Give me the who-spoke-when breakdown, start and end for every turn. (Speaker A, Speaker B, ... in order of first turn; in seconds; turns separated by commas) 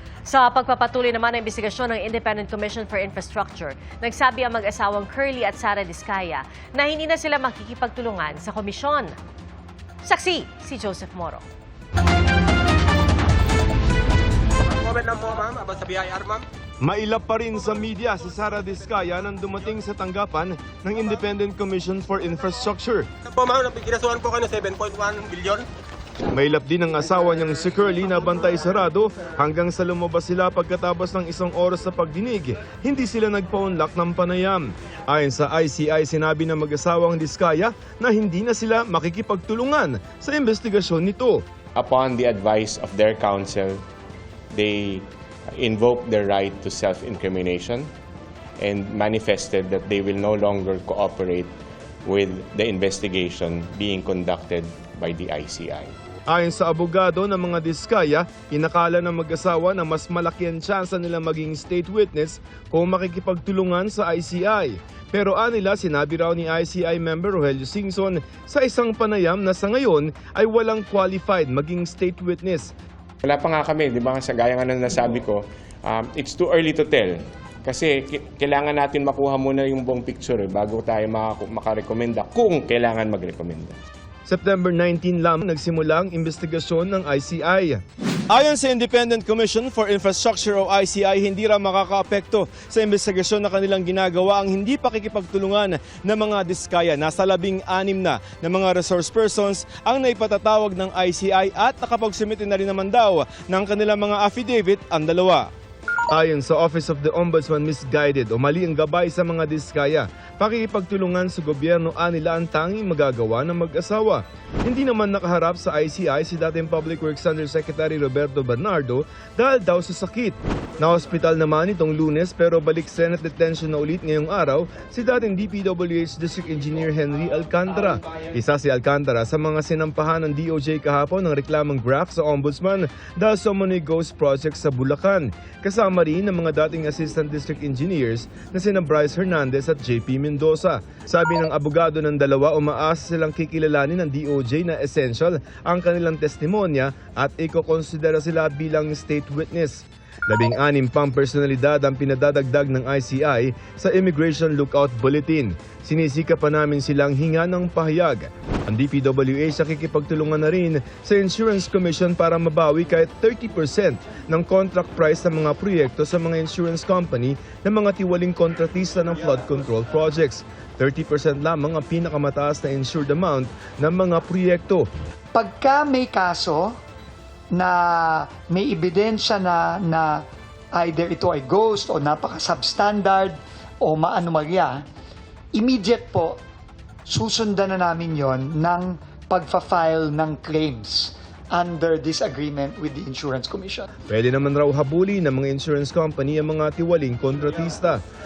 Speaker A: 0.3-9.2, Speaker A: 10.0-11.4, Speaker B: 14.7-16.4, Speaker C: 16.8-23.1, Speaker B: 23.3-25.7, Speaker C: 26.3-41.4, Speaker D: 41.8-43.8, Speaker D: 44.5-47.9, Speaker D: 48.6-51.5, Speaker D: 52.1-55.9, Speaker C: 56.3-72.7, Speaker D: 73.2-83.7, Speaker C: 84.3-105.5, Speaker C: 106.1-174.9, Speaker E: 175.3-176.7, Speaker E: 177.5-180.1, Speaker E: 180.8-184.8, Speaker E: 185.5-186.4, Speaker E: 187.1-193.9, Speaker C: 194.1-198.0